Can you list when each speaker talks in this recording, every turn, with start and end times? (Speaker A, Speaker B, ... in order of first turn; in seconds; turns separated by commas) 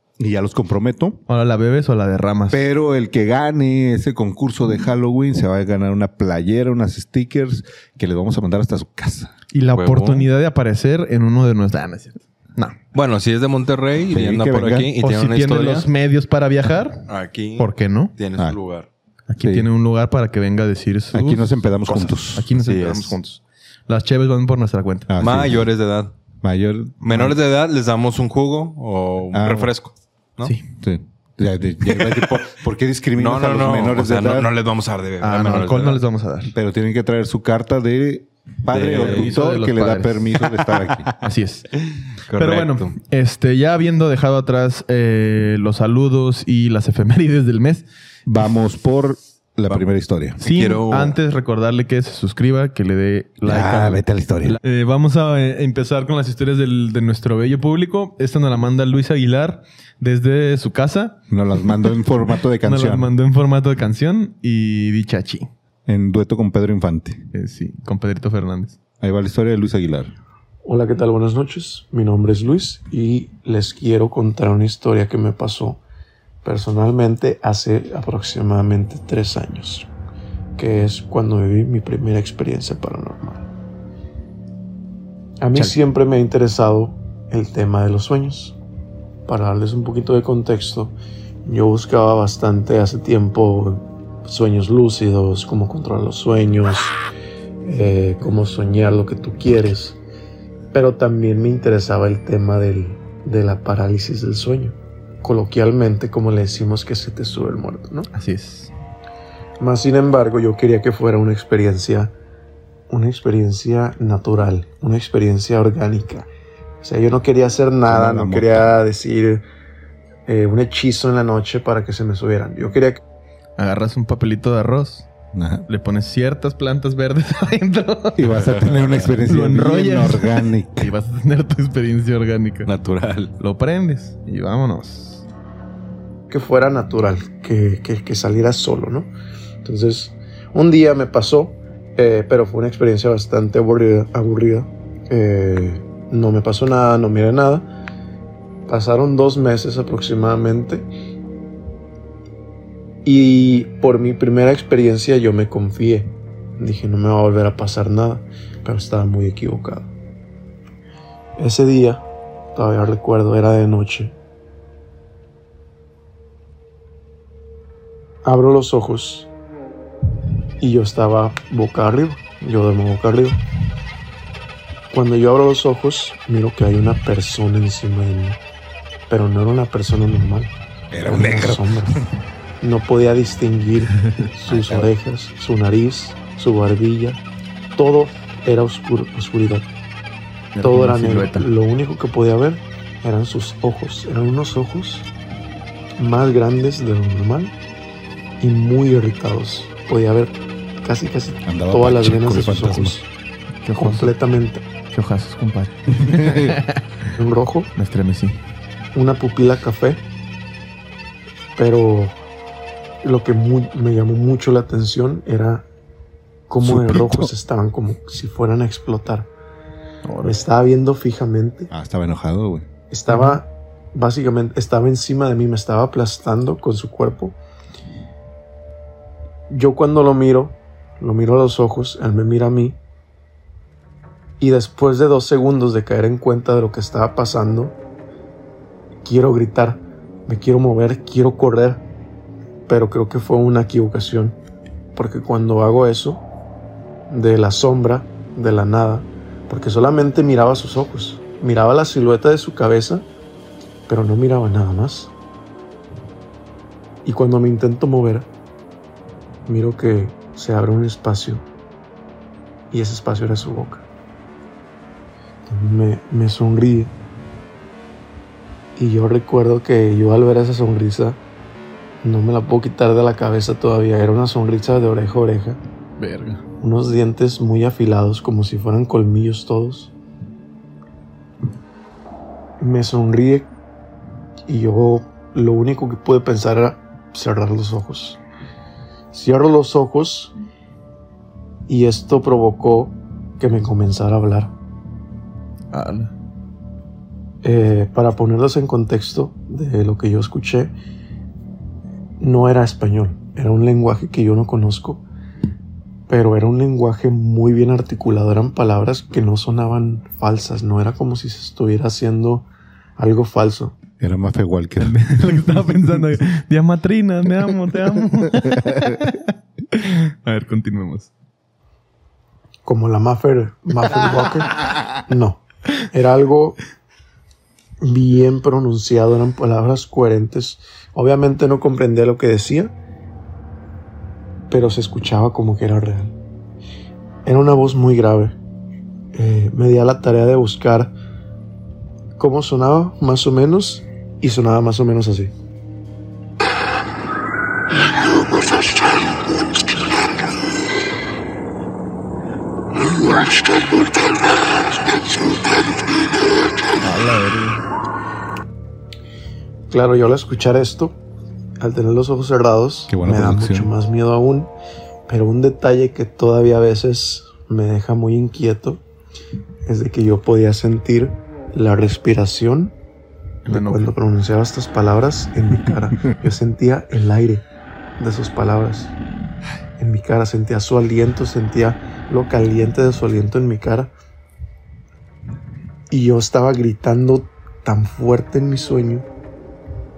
Speaker A: 0.2-1.2, Speaker B: 1.3-2.6, Speaker A: 2.5-9.3, Speaker B: 9.5-12.8, Speaker C: 9.7-10.3, Speaker C: 12.9-15.9, Speaker A: 14.1-14.9, Speaker B: 15.0-17.1, Speaker C: 17.1-18.9, Speaker B: 17.6-18.1, Speaker B: 19.3-25.1, Speaker A: 19.4-19.7, Speaker A: 21.1-22.5, Speaker C: 22.5-23.2, Speaker A: 25.1-25.7, Speaker C: 25.2-26.1, Speaker A: 26.4-27.3, Speaker C: 27.0-30.6, Speaker A: 29.3-29.7, Speaker A: 30.8-34.5, Speaker C: 31.9-32.4, Speaker C: 33.2-36.0, Speaker B: 35.2-36.5, Speaker A: 36.5-41.1, Speaker C: 38.7-39.4, Speaker B: 38.9-40.3, Speaker C: 40.6-41.0, Speaker B: 41.2-41.7, Speaker C: 42.3-42.9, Speaker B: 42.4-47.9, Speaker A: 48.2-50.4, Speaker C: 50.4-51.1, Speaker B: 50.4-61.2, Speaker A: 53.4-54.6, Speaker A: 61.3-63.1, Speaker B: 62.6-65.5, Speaker A: 65.9-67.2, Speaker B: 67.3-68.8, Speaker A: 69.0-70.1, Speaker D: 70.6-75.8, Speaker D: 76.4-79.9, Speaker D: 80.6-83.5, Speaker D: 85.4-88.6, Speaker D: 89.3-90.9, Speaker D: 91.5-97.0, Speaker D: 97.6-100.0, Speaker D: 100.7-108.1, Speaker B: 108.1-108.7, Speaker D: 109.6-112.1, Speaker D: 112.9-116.3, Speaker D: 116.8-119.4, Speaker A: 117.8-118.8, Speaker D: 120.3-123.0, Speaker B: 123.6-125.1, Speaker A: 125.3-125.7, Speaker B: 125.7-128.6, Speaker A: 128.2-130.9, Speaker C: 128.6-129.0, Speaker B: 129.2-132.7, Speaker C: 132.7-133.3, Speaker B: 133.4-135.2, Speaker D: 136.3-139.1, Speaker D: 139.6-147.7, Speaker D: 148.7-150.9, Speaker D: 153.1-159.9, Speaker D: 161.4-164.1, Speaker D: 168.2-169.3, Speaker D: 170.6-173.4, Speaker D: 174.9-178.4, Speaker D: 179.1-182.0, Speaker A: 180.9-182.1, Speaker D: 182.6-187.2, Speaker A: 184.5-184.9, Speaker D: 187.8-189.7, Speaker B: 190.5-191.5, Speaker D: 190.6-195.1, Speaker D: 196.0-197.5, Speaker D: 198.4-203.1, Speaker A: 201.4-203.0, Speaker B: 203.6-204.1, Speaker D: 203.8-204.6, Speaker B: 204.9-206.8, Speaker A: 205.9-206.6, Speaker D: 207.1-207.7, Speaker B: 207.7-208.4, Speaker D: 208.9-210.0, Speaker D: 211.6-212.2, Speaker D: 213.0-215.7, Speaker D: 216.5-219.3, Speaker A: 216.6-217.3, Speaker B: 220.1-220.4, Speaker D: 220.2-221.7, Speaker A: 221.7-222.7, Speaker D: 222.9-227.4, Speaker B: 223.1-223.4, Speaker D: 229.5-232.8, Speaker D: 234.4-237.8, Speaker D: 239.0-241.8, Speaker D: 242.7-244.4, Speaker D: 244.9-246.2, Speaker D: 247.1-253.1, Speaker D: 253.9-255.1, Speaker D: 257.1-258.3, Speaker D: 259.4-261.4, Speaker D: 262.7-263.8, Speaker D: 265.5-266.9, Speaker D: 268.8-271.2, Speaker D: 272.0-275.6, Speaker B: 276.0-276.4, Speaker D: 276.6-279.9, Speaker D: 282.6-283.5, Speaker D: 284.5-288.2, Speaker D: 289.1-290.3, Speaker D: 291.7-294.5, Speaker B: 295.7-296.1, Speaker D: 297.4-300.7, Speaker D: 302.2-305.0, Speaker D: 306.1-313.8, Speaker A: 314.0-315.0, Speaker B: 314.8-321.1, Speaker A: 318.3-319.0, Speaker D: 322.6-326.6, Speaker D: 327.8-332.7, Speaker D: 334.5-336.1, Speaker D: 337.2-338.4, Speaker D: 339.1-340.9, Speaker D: 342.2-345.3, Speaker B: 356.8-357.6, Speaker D: 359.7-361.0, Speaker D: 361.6-364.5, Speaker A: 362.9-363.7, Speaker D: 365.1-368.8, Speaker D: 369.7-372.7, Speaker B: 373.4-373.9, Speaker D: 373.5-377.4, Speaker D: 378.0-378.9, Speaker D: 379.8-383.9, Speaker D: 385.9-389.1